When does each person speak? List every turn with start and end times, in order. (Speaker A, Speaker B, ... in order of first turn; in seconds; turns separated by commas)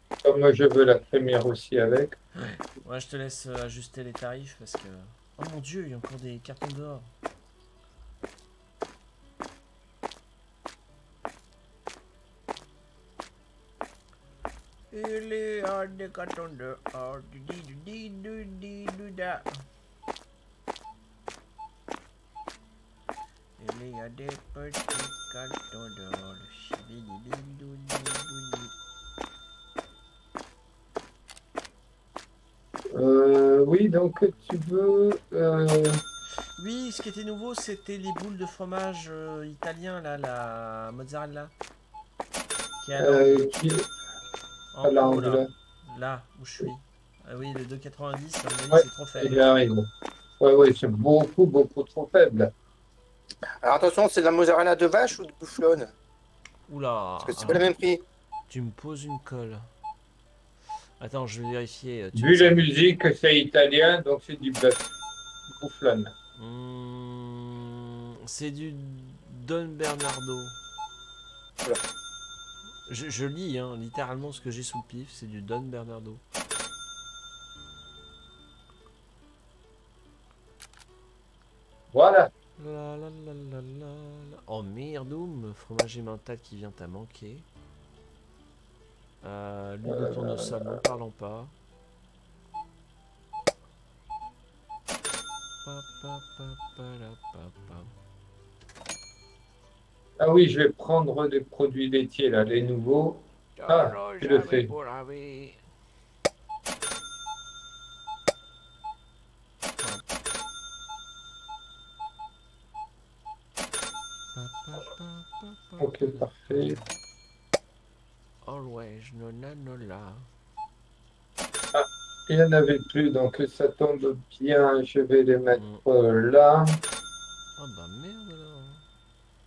Speaker A: 0.2-2.2, Speaker B: 2.4-7.1, Speaker B: 14.9-19.5, Speaker B: 23.6-28.7, Speaker A: 32.9-36.0, Speaker B: 36.6-41.5, Speaker B: 42.8-43.5, Speaker A: 43.0-43.9, Speaker B: 44.7-49.4, Speaker A: 44.8-45.5, Speaker A: 48.7-49.9, Speaker A: 50.4-52.5, Speaker C: 53.6-55.9, Speaker B: 56.7-57.7, Speaker C: 57.2-58.0, Speaker B: 58.5-59.6, Speaker B: 61.0-62.6, Speaker A: 62.1-64.8, Speaker A: 65.5-66.1, Speaker B: 66.4-70.5, Speaker B: 72.9-76.2, Speaker A: 81.9-82.3, Speaker B: 82.6-87.5, Speaker B: 89.2-91.5, Speaker A: 89.8-90.8, Speaker B: 95.6-97.9, Speaker A: 100.2-104.7, Speaker B: 103.6-105.6, Speaker B: 114.3-116.8, Speaker A: 115.8-116.8, Speaker B: 118.4-120.2, Speaker A: 121.7-126.8, Speaker B: 125.5-125.8, Speaker B: 127.6-128.8